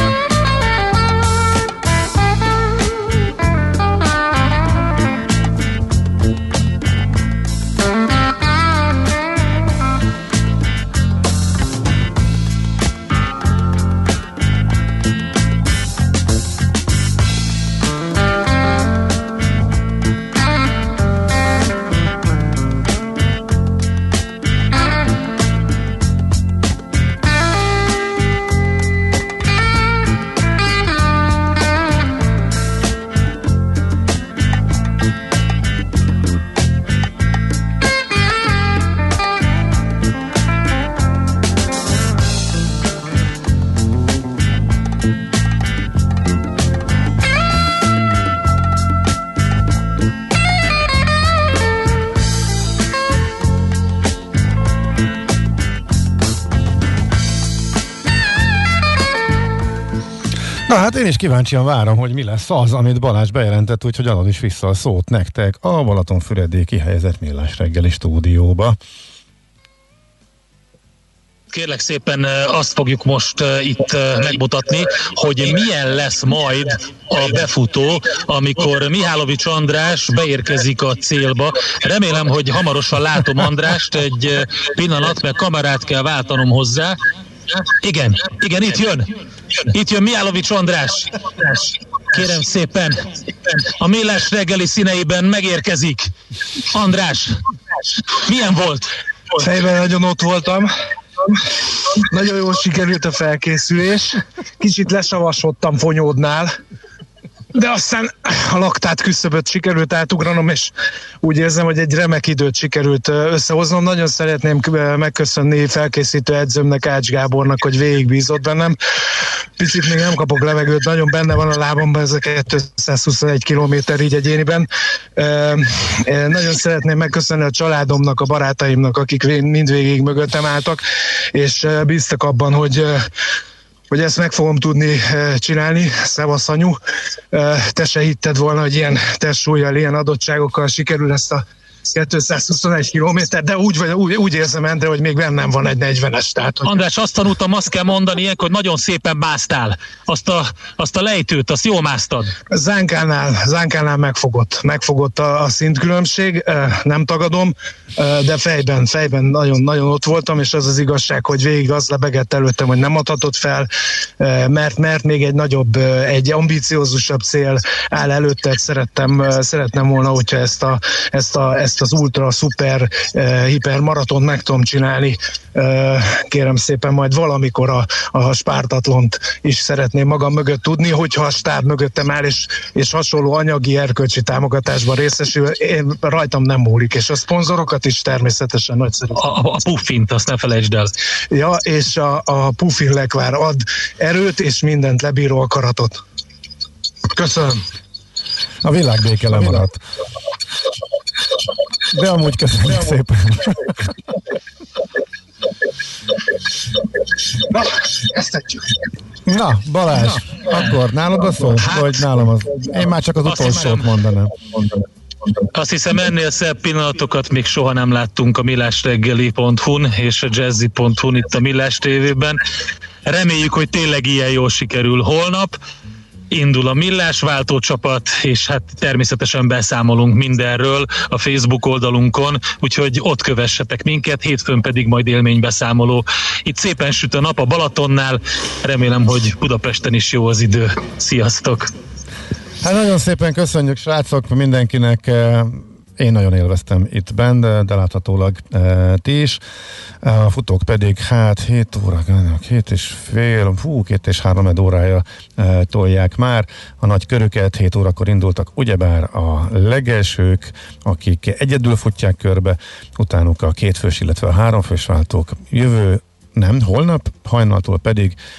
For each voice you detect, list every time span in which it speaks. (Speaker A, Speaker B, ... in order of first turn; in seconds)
Speaker A: 60.7-68.8, 198.6-199.8, 201.9-203.7, 209.3-214.3, 242.6-249.4, 250.0-268.2
Speaker B: 71.5-87.0, 87.8-89.1, 89.6-96.1, 96.7-97.3, 98.2-98.9, 146.6-152.3, 189.1-190.9, 213.2-213.8, 215.5-222.4, 223.1-225.6, 226.3-241.7
Speaker C: 99.3-100.7, 102.1-106.5, 107.5-118.8, 119.6-130.8, 131.3-133.1, 133.9-136.8, 137.3-146.7, 152.5-163.7, 164.2-189.2, 191.3-196.0, 197.1-197.6, 207.5-208.8